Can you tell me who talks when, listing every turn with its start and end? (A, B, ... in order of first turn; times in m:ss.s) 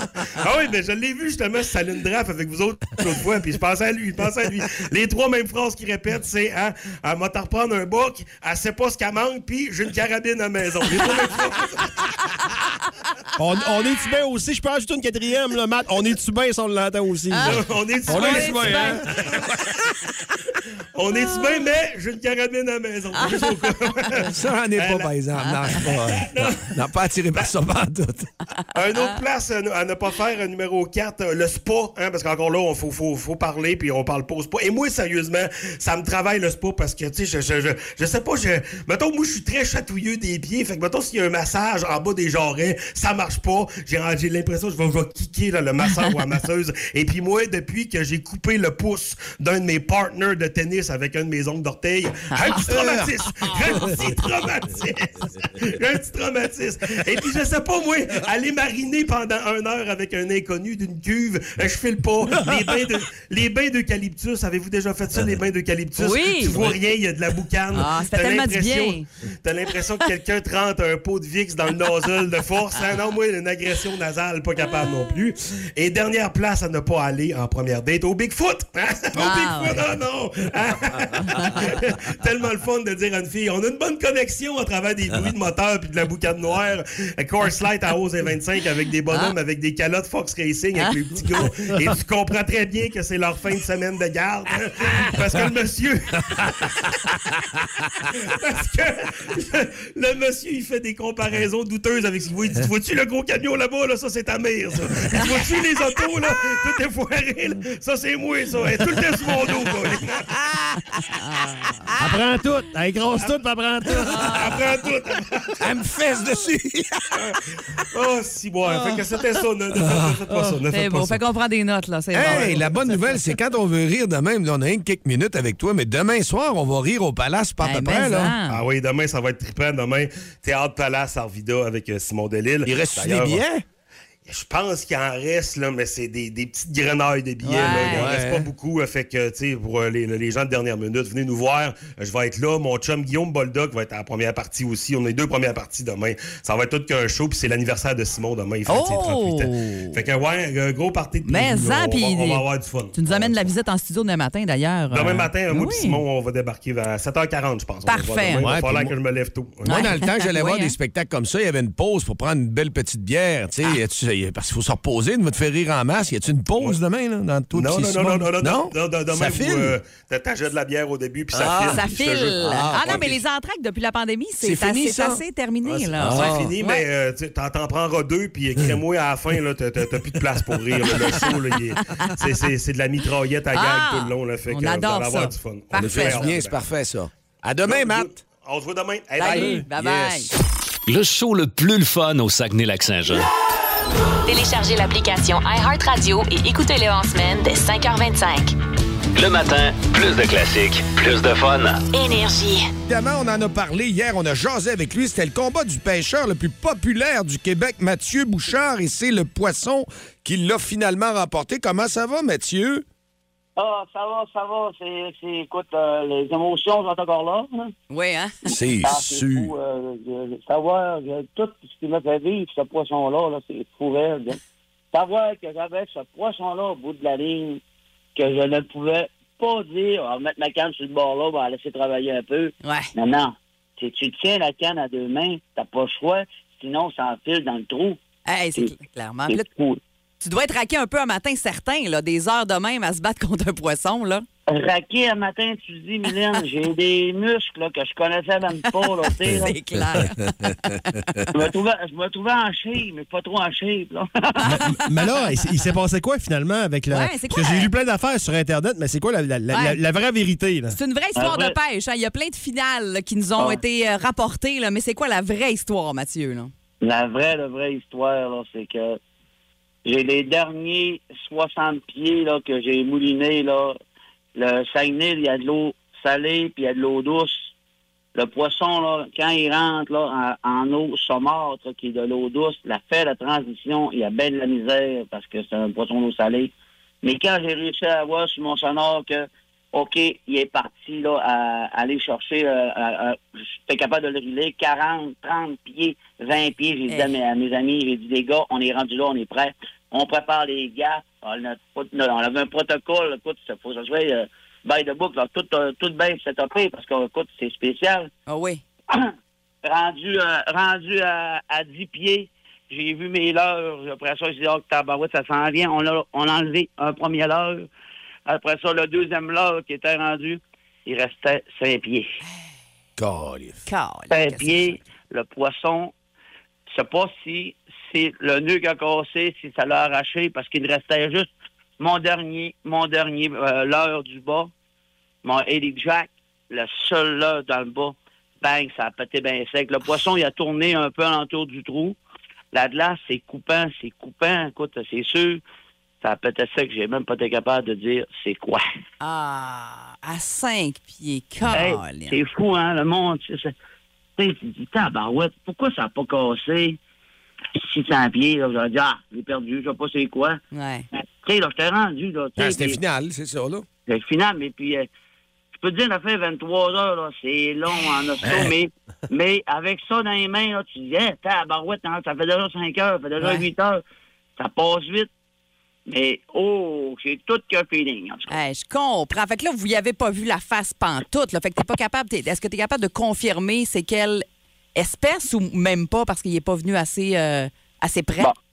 0:00.4-0:11.9 A
0:13.4-0:19.0 B
0:17.3-0:17.6 C
0:17.5-0:19.4 A
0:18.1-0:19.0 C
0:18.3-0:19.0 D
0:21.0-0:25.1 A
0:23.2-0:23.5 C
0:24.3-0:28.3 D
0:25.8-0:26.7 A
0:28.7-1:36.7 A
0:52.3-0:52.6 C
1:06.0-1:06.7 C
1:07.7-1:09.1 C
1:19.2-1:19.8 C
1:21.2-1:21.7 C
1:38.1-1:50.3 A
1:50.4-1:50.8 D
1:51.1-1:51.8 C
1:52.0-1:54.5 B
1:54.2-1:55.6 A
1:55.6-1:57.4 D
1:57.9-2:01.2 A
1:59.8-2:00.2 D
2:00.7-2:03.1 C
2:02.1-2:08.4 D
2:02.2-2:02.7 A
2:07.6-2:08.6 C
2:08.4-2:13.4 A
2:12.7-2:13.6 D
2:14.3-2:33.5 A
2:17.4-2:18.1 C
2:17.7-2:18.5 D
2:28.7-2:30.0 C
2:31.2-2:36.0 C
2:34.9-2:39.8 A
2:37.9-2:38.5 C
2:38.4-2:38.9 D
2:39.6-2:49.7 D
2:39.6-2:40.8 C
2:47.5-2:53.2 A
2:51.3-2:51.8 D
2:51.7-2:56.8 C
2:52.4-2:53.2 D
2:54.4-2:55.2 D
2:55.6-3:06.6 A
2:56.0-2:56.5 D
3:03.5-3:06.3 C
3:05.7-3:08.2 D
3:07.6-3:09.6 A
3:09.2-3:10.3 C
3:09.3-3:10.3 D
3:10.9-3:13.3 E
3:14.3-3:18.6 F
3:19.1-3:21.8 E
3:21.9-3:22.7 F
3:22.9-3:32.8 D
3:33.6-3:37.7 G
3:37.9-3:38.5 C
3:38.5-3:39.5 D
3:38.8-3:44.4 G
3:44.9-3:47.6 G
3:48.2-3:58.0 G
3:52.6-3:52.9 C
3:58.3-3:59.4 C
3:59.3-3:59.8 G
4:00.2-4:04.3 C
4:04.5-4:09.5 G
4:08.6-4:11.3 C
4:09.9-4:10.8 D
4:11.3-4:14.5 G
4:14.4-4:14.9 C
4:14.5-4:20.8 B
4:16.9-4:17.7 C
4:19.5-4:19.8 C
4:20.7-4:26.5 C
4:21.2-4:21.6 G
4:26.8-4:29.0 G
4:29.8-4:33.8 G
4:34.4-4:37.5 G
4:38.2-4:46.5 G
4:47.0-5:08.1 G
4:56.9-4:57.1 C
5:08.3-5:08.6 C
5:09.6-5:17.7 G
5:18.3-5:22.1 G
5:23.0-5:23.6 D
5:23.7-5:24.8 C
5:24.1-5:25.9 G
5:26.7-5:34.5 G
5:35.2-5:42.0 G
5:42.5-5:45.4 G
5:46.0-5:48.6 G
5:49.0-5:52.2 C
5:51.5-5:53.5 G
5:54.2-5:56.8 G
5:57.6-6:00.4 G
6:00.5-6:00.9 C
6:01.0-6:02.8 G
6:02.4-6:03.7 D
6:03.9-6:04.9 G
6:05.6-6:13.8 G
6:08.2-6:08.5 D
6:13.2-6:13.5 C
6:14.4-6:15.1 G
6:15.9-6:18.4 G
6:18.3-6:28.3 C